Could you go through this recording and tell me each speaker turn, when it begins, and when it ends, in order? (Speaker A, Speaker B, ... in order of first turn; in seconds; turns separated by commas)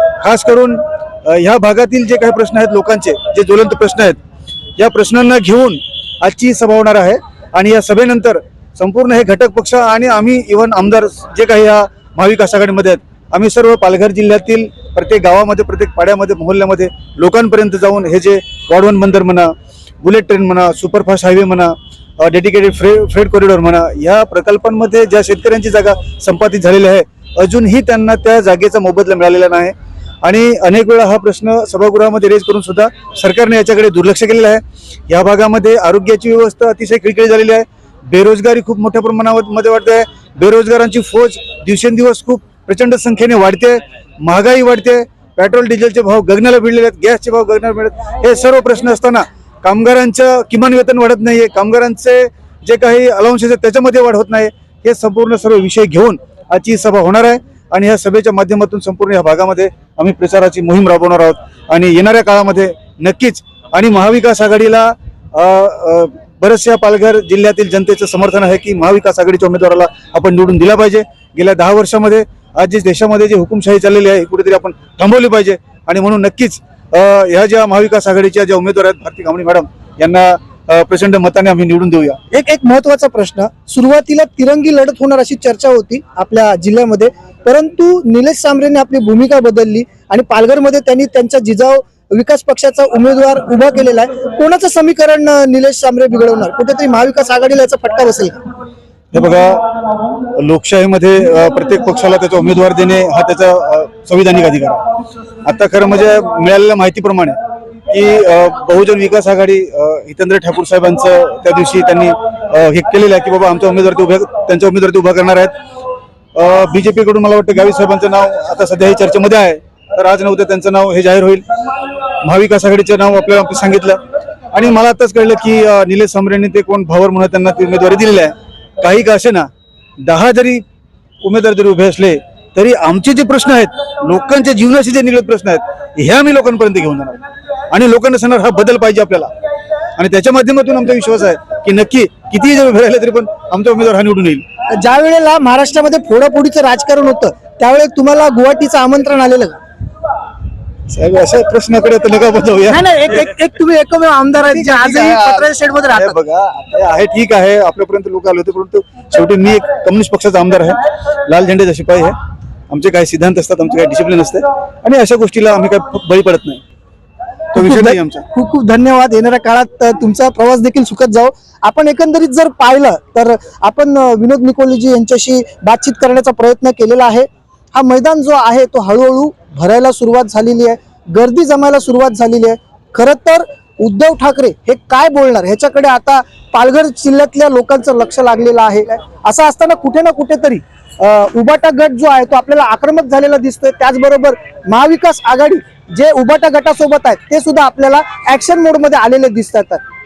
Speaker A: 0.2-4.2, Speaker A: 4.8-82.2, Speaker B: 82.3-98.4, Speaker A: 99.1-99.6, Speaker A: 100.3-104.8, Speaker A: 105.4-107.4, Speaker A: 107.9-115.5, Speaker A: 116.3-121.4, Speaker A: 122.2-124.0, Speaker A: 124.5-129.5, Speaker A: 130.0-130.6, Speaker A: 131.2-137.2, Speaker A: 137.7-139.3, Speaker A: 140.0-144.4, Speaker B: 144.8-149.6, Speaker A: 150.9-153.1, Speaker B: 152.7-156.2, Speaker A: 154.5-162.2, Speaker A: 162.7-166.6, Speaker A: 167.5-168.2, Speaker B: 167.6-199.8